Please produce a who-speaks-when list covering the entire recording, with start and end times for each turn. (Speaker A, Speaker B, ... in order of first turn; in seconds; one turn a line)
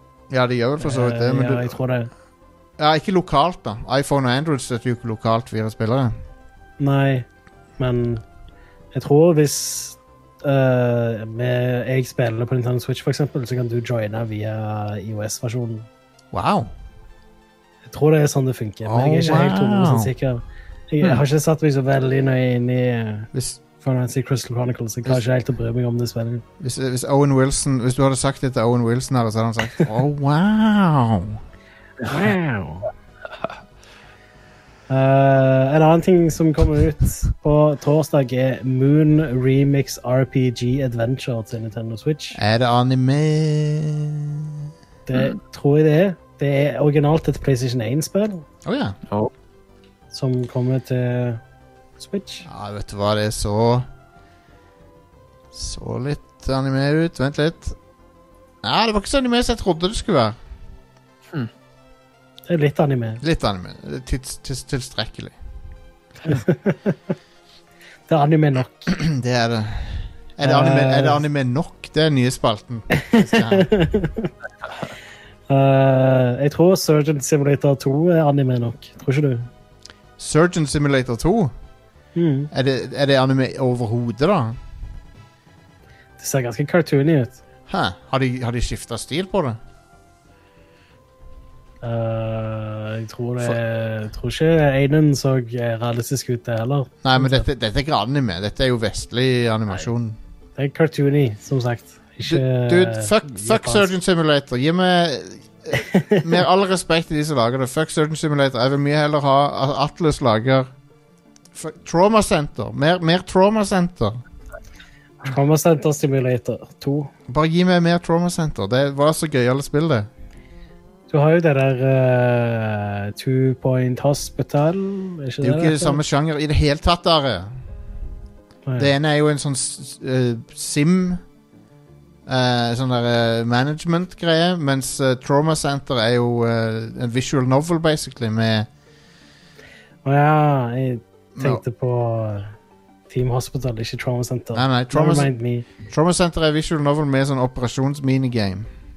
Speaker A: 0.3-1.8
Speaker B: 0.8-2.1
Speaker A: 2.8-6.1
Speaker B: 6.8-7.3
Speaker B: 7.8-8.2
Speaker B: 8.9-15.9
Speaker A: 16.3-16.7
Speaker B: 17.9-26.4
Speaker A: 18.9-20.1
Speaker A: 23.3-23.6
Speaker A: 26.6-31.4
Speaker B: 32.0-32.9
Speaker B: 34.9-42.4
Speaker A: 42.4-44.7
Speaker B: 45.1-48.5
Speaker A: 48.6-49.0
Speaker B: 50.1-51.4
Speaker B: 52.0-52.5
Speaker A: 52.5-53.9
Speaker A: 55.5-57.8
Speaker A: 58.6-60.4
Speaker B: 62.5-63.2
Speaker A: 63.2-65.4
Speaker B: 66.2-67.0
Speaker B: 68.1-68.9
Speaker A: 68.9-73.7
Speaker B: 70.4-71.2
Speaker B: 72.9-74.3
Speaker B: 75.5-79.5
Speaker A: 80.2-81.5
Speaker B: 82.2-82.5
Speaker A: 82.5-84.6
Speaker B: 86.2-87.4
Speaker A: 87.7-89.6
Speaker B: 91.8-97.5
Speaker A: 97.0-100.2
Speaker B: 100.6-103.9
Speaker A: 102.3-110.7
Speaker B: 105.7-106.2
Speaker A: 111.5-114.2
Speaker B: 115.2-117.1
Speaker A: 117.3-120.1
Speaker B: 121.1-126.0
Speaker A: 125.4-127.6
Speaker A: 128.8-131.2
Speaker A: 132.3-138.7
Speaker B: 140.1-142.5
Speaker A: 141.3-141.6
Speaker B: 143.1-145.7
Speaker A: 144.5-145.3
Speaker A: 145.9-148.7